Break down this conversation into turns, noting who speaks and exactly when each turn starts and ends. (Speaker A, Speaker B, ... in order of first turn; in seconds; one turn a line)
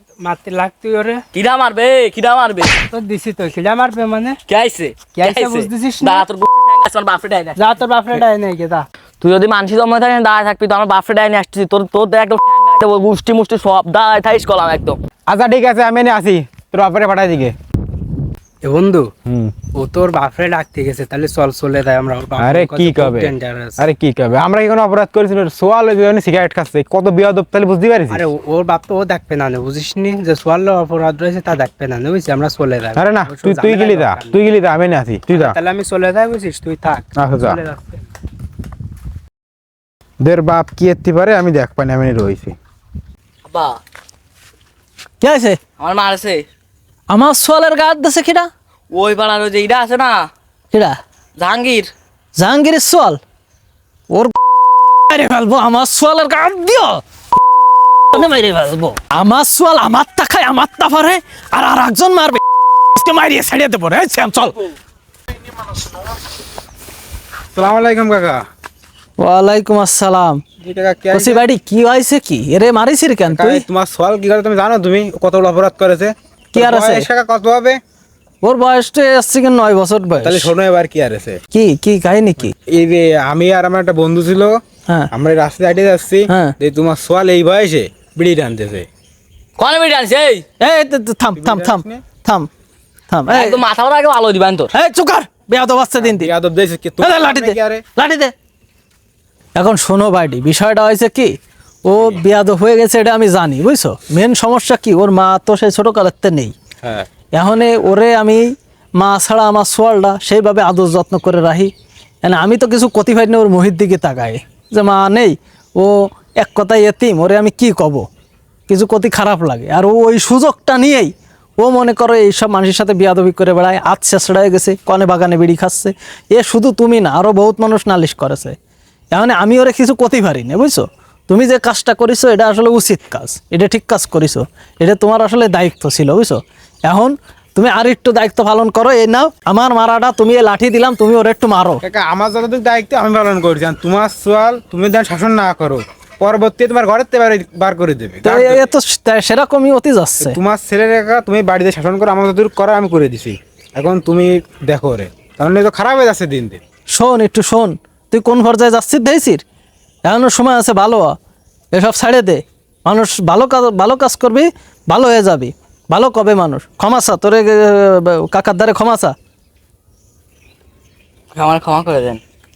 Speaker A: 0.2-1.2
Speaker B: 1.3-2.9
Speaker A: 2.9-4.4
Speaker B: 4.5-7.6
Speaker A: 5.1-6.2
Speaker A: 7.6-8.8
Speaker B: 9.2-15.0
Speaker C: 15.3-17.5
Speaker A: 18.6-19.1
Speaker C: 19.2-19.5
Speaker A: 19.7-23.8
Speaker C: 22.4-28.2
Speaker A: 28.1-34.4
Speaker C: 33.0-35.5
Speaker A: 35.3-38.0
Speaker C: 37.2-37.6
Speaker C: 40.2-42.6
Speaker B: 43.5-43.8
Speaker D: 45.2-45.6
Speaker B: 45.8-46.5
Speaker D: 47.1-48.5
Speaker B: 48.9-50.3
Speaker D: 50.7-51.0
Speaker B: 51.4-51.9
Speaker D: 52.4-53.2
Speaker D: 55.1-57.0
Speaker D: 58.1-62.4
Speaker D: 62.9-64.7
Speaker C: 67.5-68.4
Speaker D: 69.2-70.4
Speaker C: 70.6-71.4
Speaker D: 71.1-73.6
Speaker C: 73.3-77.8
Speaker D: 76.5-77.1
Speaker D: 78.4-80.5
Speaker C: 80.2-81.4
Speaker D: 81.5-82.5
Speaker C: 82.5-88.9
Speaker D: 86.3-86.5
Speaker B: 89.6-90.4
Speaker D: 90.6-92.5
Speaker C: 91.3-92.0
Speaker D: 93.1-93.6
Speaker B: 93.3-94.7
Speaker D: 94.7-96.3
Speaker C: 96.0-97.8
Speaker D: 97.0-98.3
Speaker D: 99.5-106.5
Speaker D: 107.3-111.7
Speaker D: 112.2-118.0
Speaker D: 118.7-128.6
Speaker D: 129.1-141.8
Speaker C: 141.8-148.7
Speaker D: 148.2-150.4
Speaker C: 150.2-156.6
Speaker D: 156.9-159.4
Speaker D: 160.0-161.2
Speaker D: 161.7-169.1
Speaker B: 171.3-172.2